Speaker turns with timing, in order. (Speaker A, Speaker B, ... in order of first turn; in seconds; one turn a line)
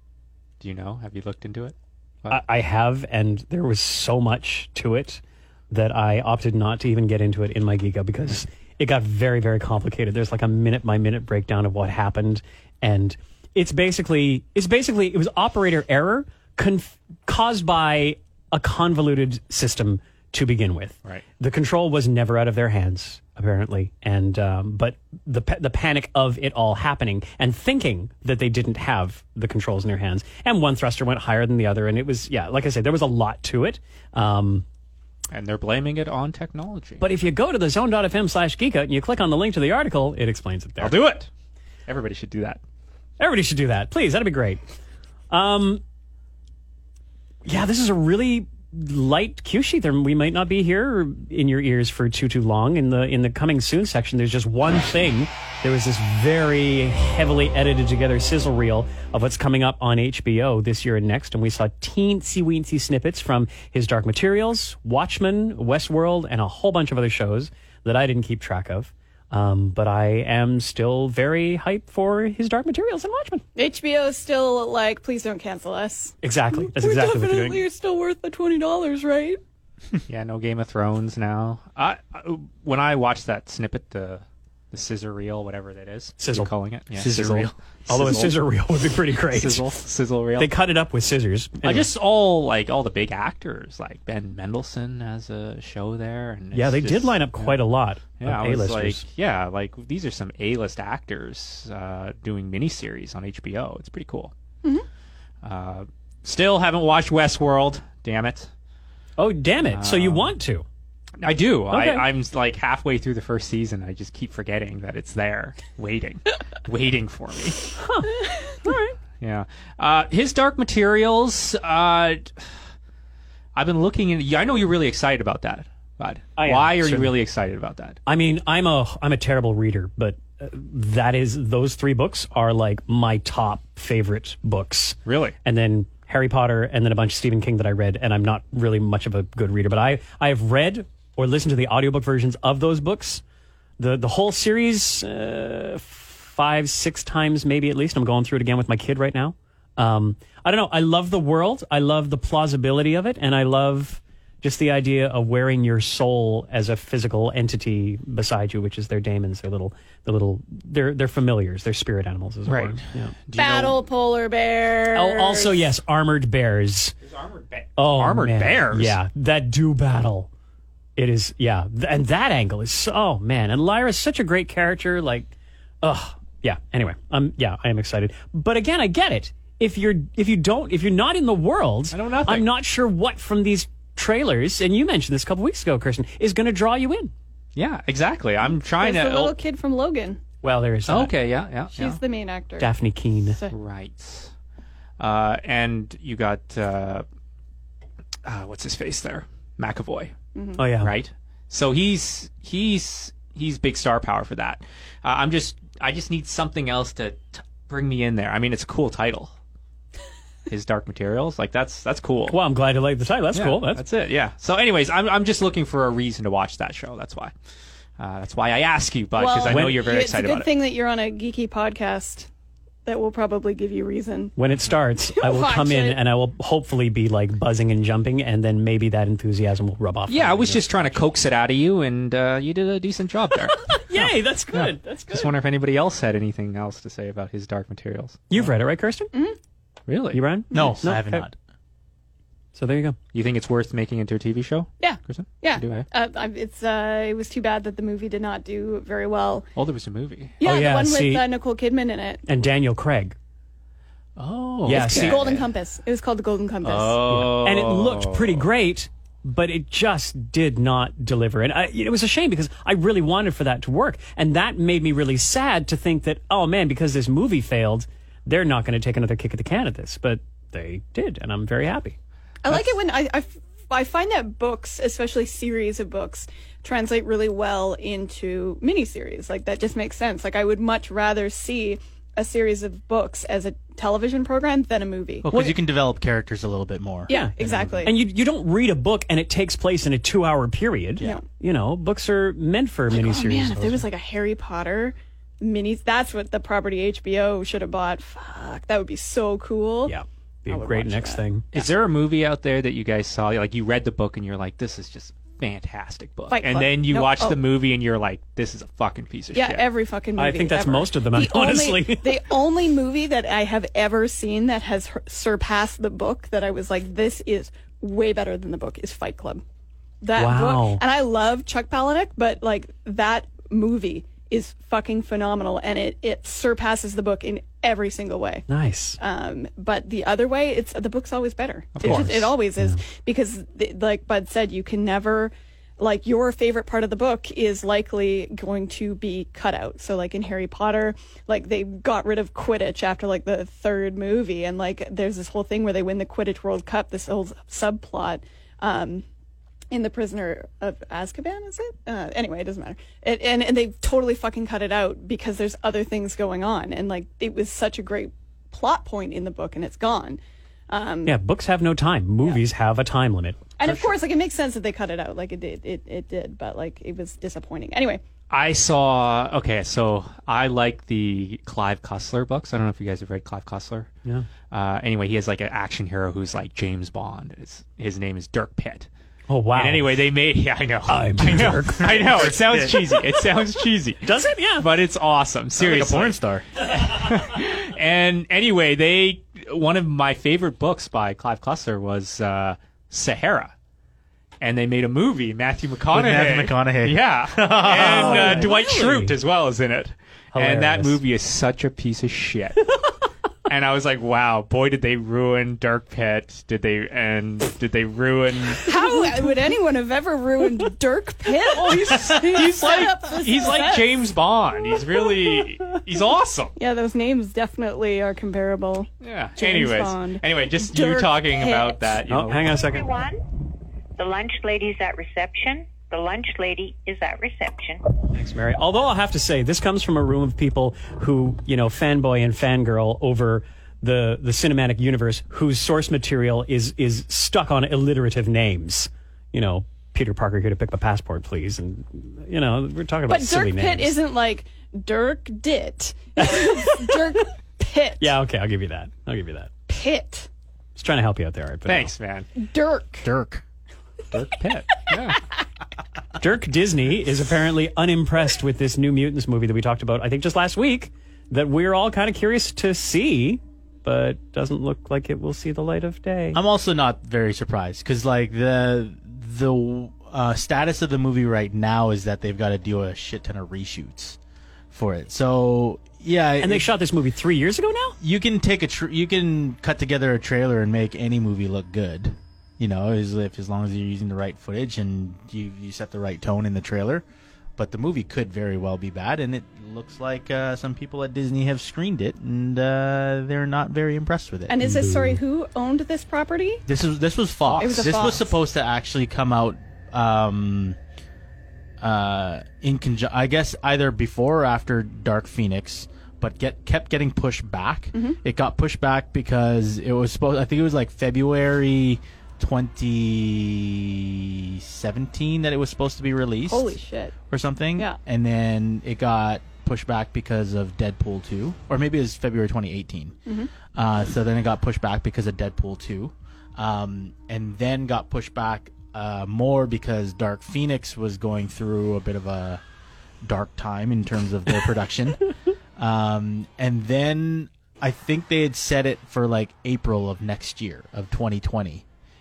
Speaker A: 0.6-2.4
Speaker B: 2.3-34.6
Speaker A: 35.3-37.0
Speaker B: 37.0-41.0
Speaker A: 40.8-41.3
Speaker A: 41.9-42.6
Speaker B: 43.2-44.6
Speaker B: 45.3-45.8
Speaker B: 47.5-73.4
Speaker C: 73.5-79.4
Speaker B: 76.2-77.6
Speaker A: 80.1-88.3
Speaker B: 86.2-86.5
Speaker D: 86.9-87.5
Speaker B: 87.9-89.8
Speaker A: 89.3-90.5
Speaker B: 90.4-91.9
Speaker A: 91.6-97.6
Speaker B: 96.5-99.0
Speaker A: 98.2-104.3
Speaker A: 105.4-108.5
Speaker B: 109.2-110.7
Speaker A: 109.7-110.3
Speaker A: 111.2-117.6
Speaker B: 111.7-112.0
Speaker B: 117.8-118.9
Speaker A: 119.2-122.4
Speaker A: 123.5-128.0
Speaker B: 126.4-127.1
Speaker B: 128.1-143.2
Speaker A: 135.1-135.3
Speaker B: 143.8-163.1
Speaker A: 162.4-163.8
Speaker C: 163.3-165.5
Speaker B: 164.9-166.9
Speaker A: 167.0-168.9
Speaker B: 167.8-170.3
Speaker B: 170.9-175.3
Speaker B: 175.8-187.1
Speaker A: 181.9-182.4
Speaker A: 187.6-189.3
Speaker C: 188.4-190.2
Speaker B: 190.4-191.1
Speaker A: 190.9-192.0
Speaker C: 191.7-192.7
Speaker B: 192.6-193.4
Speaker A: 193.5-194.3
Speaker A: 195.0-197.0
Speaker A: 198.2-200.1
Speaker C: 200.3-200.6
Speaker B: 200.6-200.9
Speaker A: 200.8-209.3
Speaker A: 210.5-212.4
Speaker B: 212.3-213.8
Speaker A: 213.3-217.3
Speaker A: 218.0-220.5
Speaker C: 219.2-222.3
Speaker B: 219.5-219.8
Speaker C: 222.8-224.3
Speaker B: 224.3-231.0
Speaker C: 225.1-226.0
Speaker A: 230.1-233.8
Speaker B: 233.7-235.2
Speaker A: 234.5-238.4
Speaker B: 238.3-239.1
Speaker A: 239.9-240.2
Speaker B: 240.1-241.2
Speaker C: 240.5-240.8
Speaker D: 240.5-241.3
Speaker B: 242.5-243.0
Speaker A: 243.1-245.9
Speaker C: 244.8-249.5
Speaker A: 249.6-250.4
Speaker C: 250.4-252.2
Speaker B: 250.4-251.3
Speaker B: 252.3-253.2
Speaker A: 254.2-255.5
Speaker B: 254.6-255.2
Speaker C: 254.7-257.0
Speaker A: 256.6-258.4
Speaker B: 257.1-271.9
Speaker C: 272.4-285.4
Speaker D: 285.2-287.9
Speaker C: 287.1-287.9
Speaker B: 287.1-293.8
Speaker C: 292.9-299.9
Speaker B: 299.9-301.6
Speaker C: 300.5-301.2
Speaker A: 301.5-309.6
Speaker C: 306.3-307.4
Speaker C: 309.3-319.4
Speaker B: 310.2-312.3
Speaker C: 320.0-328.4
Speaker B: 320.1-320.8
Speaker B: 328.5-329.0
Speaker C: 329.0-349.0
Speaker A: 331.8-332.3
Speaker B: 331.8-332.8
Speaker C: 349.7-361.1
Speaker B: 361.1-363.4
Speaker C: 363.6-368.0
Speaker A: 363.6-363.9
Speaker A: 368.3-373.9
Speaker A: 374.5-378.9
Speaker B: 379.3-380.0
Speaker A: 379.5-393.5
Speaker B: 380.9-382.3
Speaker D: 381.8-383.0
Speaker B: 384.0-384.7
Speaker D: 385.6-386.5
Speaker A: 394.4-402.8
Speaker D: 395.9-398.5
Speaker B: 397.7-399.1
Speaker B: 400.3-401.0
Speaker A: 403.5-408.7
Speaker C: 408.6-413.9
Speaker A: 411.6-416.5
Speaker C: 416.6-422.0
Speaker A: 419.0-422.6
Speaker B: 422.1-422.9
Speaker E: 422.5-423.2
Speaker E: 424.0-427.8
Speaker B: 428.1-443.9
Speaker C: 443.1-448.1
Speaker B: 446.2-447.0
Speaker B: 448.0-449.5
Speaker C: 449.7-450.3
Speaker B: 450.8-451.9
Speaker A: 451.6-452.3
Speaker C: 452.4-453.1
Speaker D: 453.0-453.4
Speaker A: 454.1-455.2
Speaker B: 456.2-466.4
Speaker D: 466.3-474.2
Speaker D: 474.7-476.7
Speaker B: 476.4-478.0
Speaker D: 478.0-487.0
Speaker D: 487.6-494.6
Speaker C: 494.5-496.6
Speaker B: 494.6-495.2
Speaker D: 496.7-500.8
Speaker C: 497.6-498.3
Speaker D: 501.8-516.8
Speaker C: 516.5-517.1
Speaker D: 517.3-523.1
Speaker D: 523.7-532.6
Speaker D: 533.2-535.2
Speaker D: 535.8-541.8